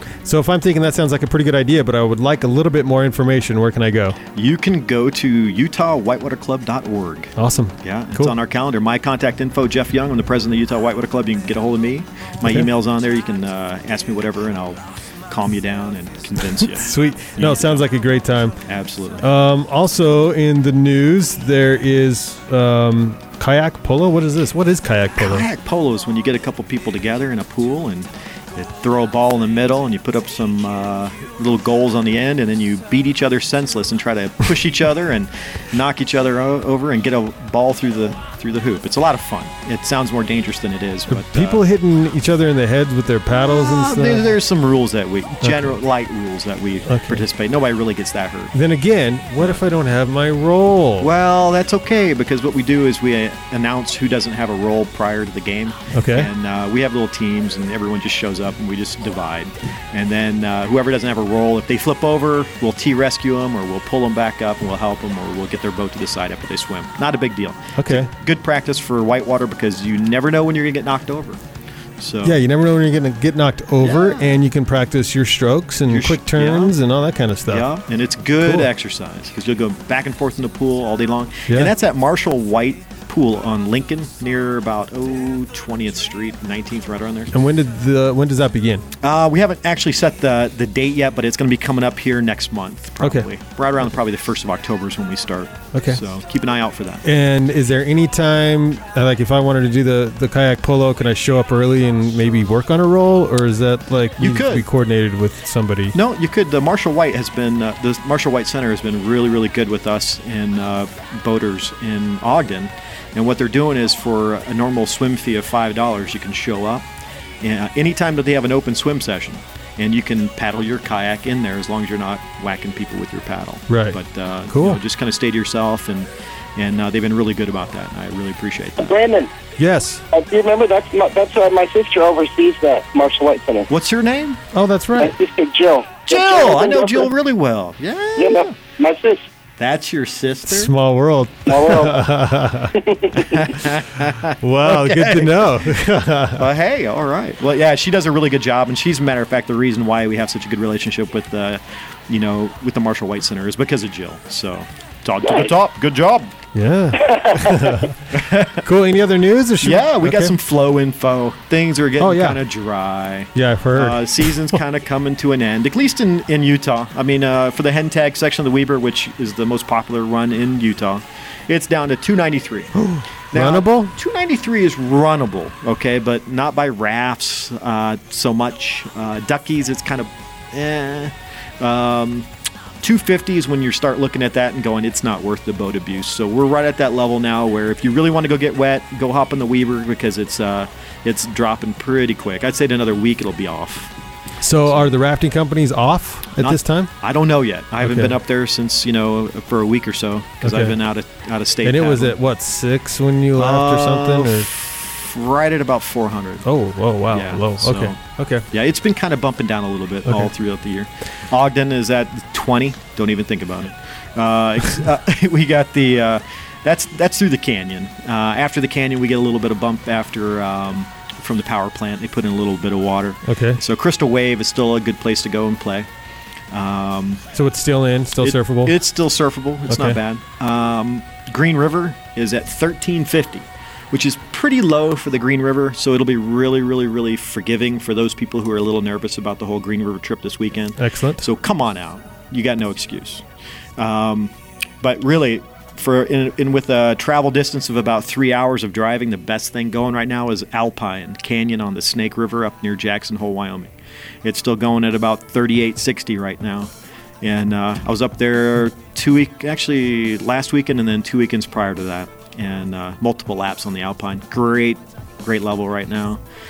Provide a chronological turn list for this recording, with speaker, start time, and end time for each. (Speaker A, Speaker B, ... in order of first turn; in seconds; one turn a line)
Speaker A: 0.2-4.2
Speaker B: 4.3-17.8
Speaker A: 7.3-8.3
Speaker A: 16.6-18.6
Speaker B: 18.6-19.3
Speaker A: 19.2-25.5
Speaker B: 25.2-41.6
Speaker A: 41.1-44.3
Speaker B: 43.4-48.5
Speaker A: 45.4-45.7
Speaker A: 46.9-47.2
Speaker A: 48.5-51.1
Speaker B: 51.0-71.4
Speaker A: 55.9-56.3
Speaker A: 67.8-68.1
Speaker B: 72.0-72.4
Speaker A: 72.2-77.7
Speaker B: 73.8-74.4
Speaker B: 75.9-76.8
Speaker B: 77.5-87.3
Speaker A: 78.4-78.7
Speaker A: 81.5-81.7
Speaker A: 87.3-88.8
Speaker B: 89.0-97.0
Speaker A: 93.0-93.3
Speaker A: 95.7-96.0
Speaker A: 97.0-106.0
Speaker B: 104.2-104.6
Speaker B: 105.9-116.8
Speaker B: 117.4-128.9
Speaker A: 123.7-124.0
Speaker A: 124.5-124.8
Speaker C: 128.8-129.3
Speaker A: 129.6-130.0
Speaker C: 130.1-133.7
Speaker B: 133.7-134.4
Speaker A: 134.5-135.1
Speaker C: 135.0-137.1
Speaker B: 136.1-138.5
Speaker C: 138.2-139.2
Speaker B: 139.6-140.7
Speaker A: 140.5-142.8
Speaker C: 141.5-142.0
Speaker C: 142.7-143.5
Speaker B: 143.1-145.6
Speaker A: 144.4-146.5
Speaker B: 146.3-156.3
Speaker A: 156.5-158.0
Speaker B: 158.1-158.6
Speaker A: 158.6-160.3
Speaker B: 159.6-172.7
Speaker A: 162.0-162.4
Speaker A: 163.3-164.6
Speaker A: 172.8-173.9
Speaker B: 173.3-182.3
Speaker B: 182.8-193.9
Speaker A: 194.4-196.9
Speaker B: 194.6-194.9
Speaker B: 196.3-202.2
Speaker A: 197.8-198.2
Speaker A: 200.4-200.8
Speaker A: 201.6-204.5
Speaker B: 203.3-206.4
Speaker A: 206.4-208.4
Speaker B: 207.1-208.0
Speaker B: 208.5-225.9
Speaker A: 210.1-210.3
Speaker A: 223.2-223.6
Speaker B: 226.5-227.2
Speaker A: 227.3-228.8
Speaker B: 228.2-243.2
Speaker A: 229.7-230.0
Speaker A: 240.8-241.2
Speaker B: 243.8-253.7
Speaker B: 254.2-266.2